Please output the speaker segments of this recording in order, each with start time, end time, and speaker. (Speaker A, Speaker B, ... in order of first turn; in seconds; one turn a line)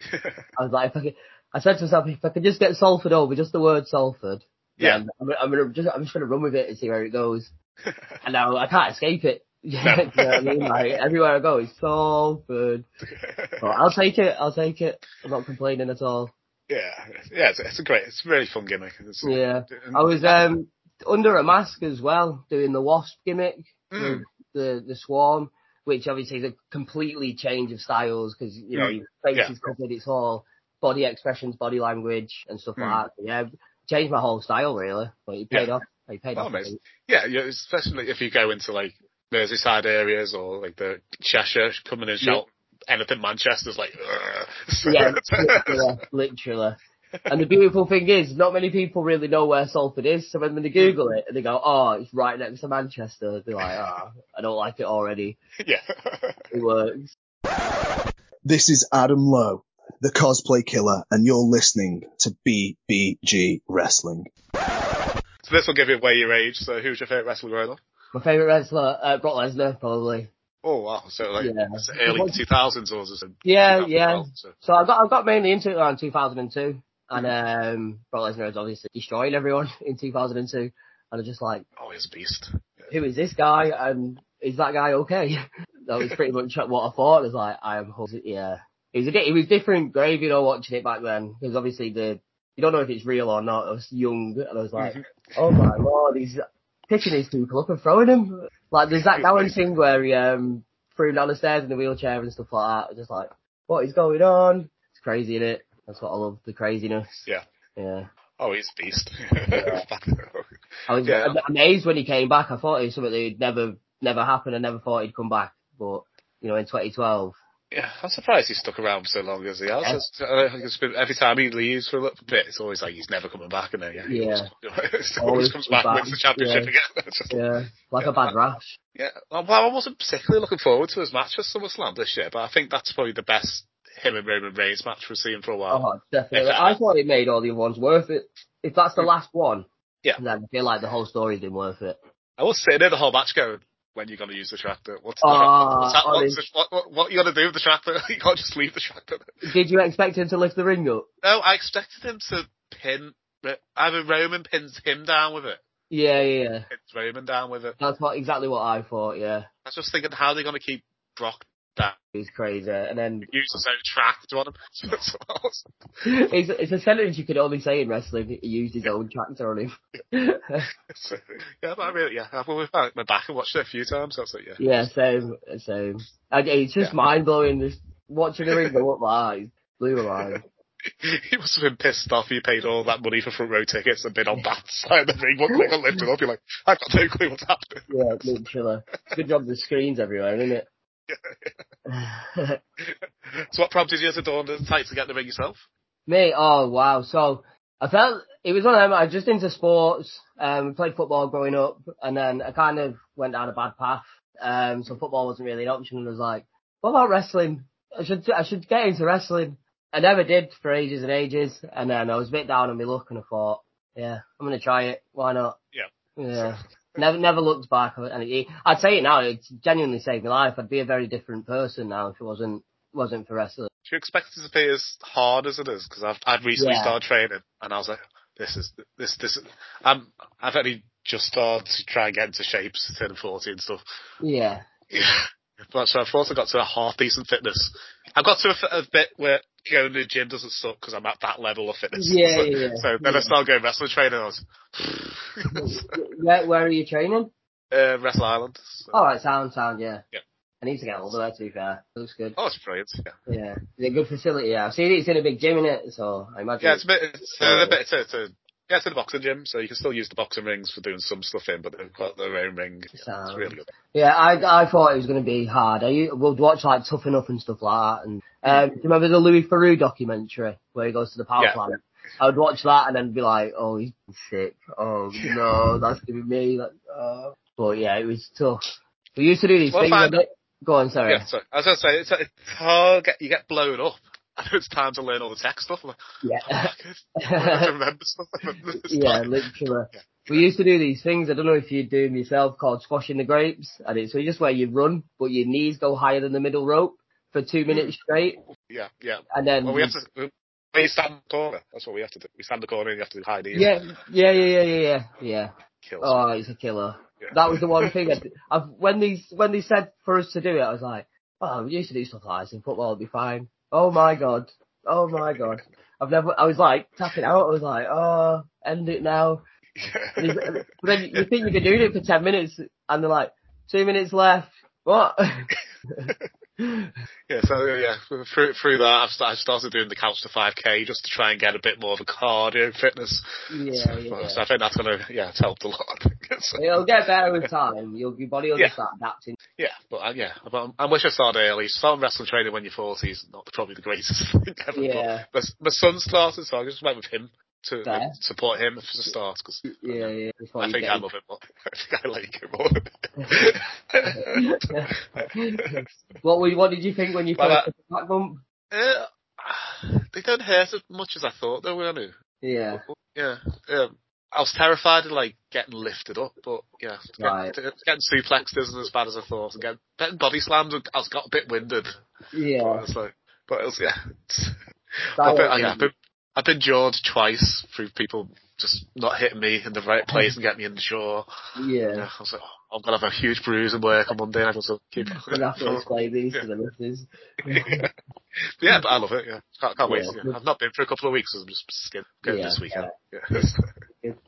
Speaker A: 0.1-0.4
Speaker B: 0.6-7.5
Speaker B: 8.2-12.9
Speaker A: 9.8-10.9
Speaker A: 13.2-13.8
Speaker B: 13.6-16.3
Speaker A: 16.7-20.4
Speaker B: 19.2-36.8
Speaker A: 23.9-24.2
Speaker A: 28.7-29.5
Speaker A: 32.8-33.0
Speaker A: 36.4-45.9
Speaker B: 44.8-55.4
Speaker A: 55.6-56.4
Speaker B: 56.5-57.1
Speaker C: 58.5-64.3
Speaker A: 65.4-67.8
Speaker B: 68.1-70.3
Speaker A: 70.6-74.6
Speaker B: 71.4-72.4
Speaker B: 73.4-81.7
Speaker A: 81.8-82.9
Speaker B: 82.9-108.1
Speaker A: 94.8-95.0
Speaker A: 99.1-99.6
Speaker A: 108.4-110.5
Speaker B: 109.5-109.8
Speaker B: 110.9-117.3
Speaker A: 111.0-111.4
Speaker A: 117.7-127.4
Speaker B: 124.0-124.5
Speaker B: 125.2-126.7
Speaker B: 127.3-128.7
Speaker A: 128.0-128.3
Speaker A: 128.9-136.8
Speaker B: 135.7-139.6
Speaker B: 140.2-142.0
Speaker A: 142.4-149.3
Speaker B: 145.2-146.4
Speaker B: 149.4-151.1
Speaker A: 151.2-155.6
Speaker B: 155.9-156.7
Speaker A: 156.7-157.8
Speaker B: 157.8-159.5
Speaker A: 159.6-162.0
Speaker B: 162.1-163.3
Speaker A: 163.2-165.7
Speaker B: 166.0-170.7
Speaker A: 170.9-174.7
Speaker B: 174.6-180.4
Speaker A: 178.4-178.7
Speaker A: 180.8-188.2
Speaker B: 187.9-190.7
Speaker A: 191.1-191.5
Speaker B: 191.9-192.6
Speaker A: 192.8-195.6
Speaker B: 196.1-215.6
Speaker A: 215.7-216.6
Speaker B: 216.2-223.7
Speaker A: 223.8-233.8
Speaker B: 226.6-227.0
Speaker B: 234.2-234.7
Speaker A: 234.9-245.8
Speaker B: 241.9-243.3
Speaker B: 245.5-247.3
Speaker A: 247.7-248.9
Speaker B: 248.9-250.0
Speaker B: 250.6-252.4
Speaker A: 252.4-253.1
Speaker B: 253.3-257.8
Speaker A: 256.6-263.7
Speaker B: 262.9-281.3
Speaker A: 275.2-275.4
Speaker A: 279.7-280.2
Speaker A: 281.1-289.4
Speaker B: 286.2-287.7
Speaker B: 288.8-298.4
Speaker A: 289.9-290.4
Speaker A: 298.5-303.7
Speaker B: 299.3-299.9
Speaker B: 303.5-319.4
Speaker A: 305.8-306.2
Speaker A: 307.2-307.9
Speaker A: 315.1-315.6
Speaker A: 319.8-321.3
Speaker B: 320.2-326.9
Speaker A: 327.3-336.8
Speaker B: 333.5-334.4
Speaker B: 336.6-339.4
Speaker A: 339.6-354.4
Speaker B: 344.7-345.2
Speaker B: 347.8-348.2
Speaker B: 349.6-351.0
Speaker B: 354.1-358.4
Speaker A: 355.1-355.8
Speaker A: 357.4-357.7
Speaker A: 358.7-362.1
Speaker B: 362.4-362.8
Speaker A: 362.9-372.0
Speaker B: 367.2-367.6
Speaker B: 372.3-372.8
Speaker A: 372.6-381.3
Speaker B: 375.2-375.9
Speaker B: 381.6-382.1
Speaker A: 381.9-386.4
Speaker B: 385.2-387.8
Speaker A: 387.5-387.9
Speaker A: 388.6-393.6
Speaker B: 389.8-390.4
Speaker B: 392.2-392.9